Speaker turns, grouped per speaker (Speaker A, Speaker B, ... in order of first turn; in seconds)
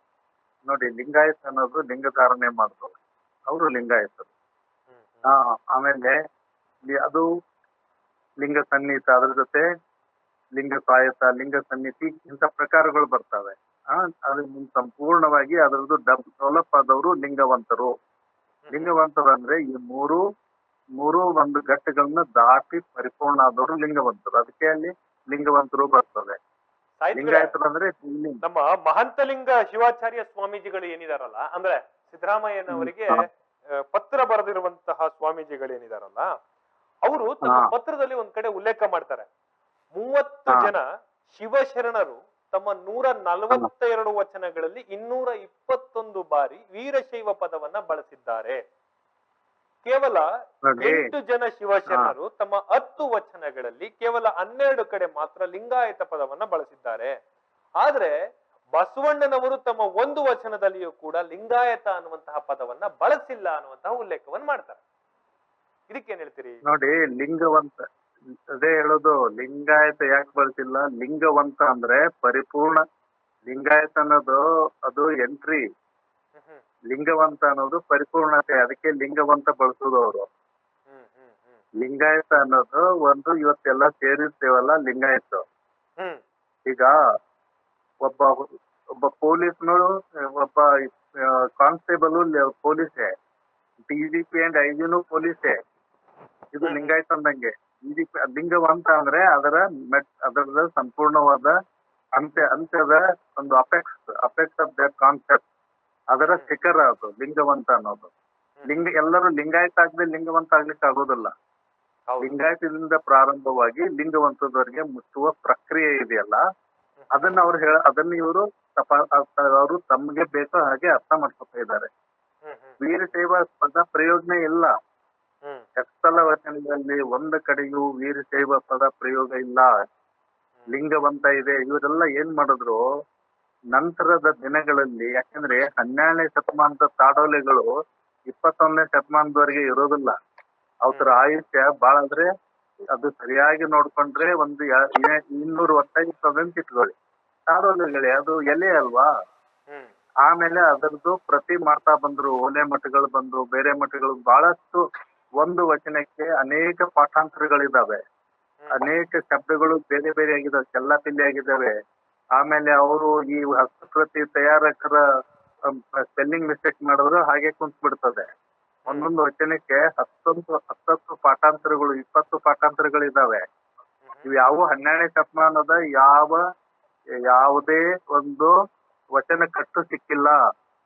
Speaker A: 0.7-4.3, 5.3-6.2, 6.9-7.2, 8.4-9.6, 10.6-17.9, 18.7-20.2, 21.0-26.4, 27.1-28.4, 32.7-33.1, 37.4-37.7, 40.5-40.7, 50.6-51.1, 51.9-52.1, 66.6-67.8, 68.6-72.8, 73.5-75.6, 76.9-80.3, 81.8-85.4, 86.7-86.9, 88.0-88.5, 89.0-90.7, 91.2-93.1, 93.9-95.5, 96.5-101.5, 102.2-105.4, 106.1-108.1, 108.7-111.3, 112.2-116.4, 117.1-121.9, 122.8-124.7, 125.8-129.7, 130.7-132.8, 133.7-137.7, 138.3-140.1, 140.8-142.3, 142.9-146.9, 147.5-149.1, 150.2-154.8, 155.4-158.0, 158.7-161.7, 162.4-165.0, 165.7-168.2, 168.9-173.4, 174.2-176.4, 177.3-178.5, 179.2-180.4
Speaker B: 4.9-5.2, 27.0-27.6, 28.4-33.2, 33.9-36.3, 37.0-39.3, 40.0-40.8, 41.3-48.6, 49.8-50.2, 50.8-57.1, 57.8-58.1, 58.8-64.8, 65.9-66.6, 76.3-76.6, 80.9-81.7, 96.6-96.9, 112.1-112.3, 117.0-117.4, 122.4-122.8, 140.9-141.2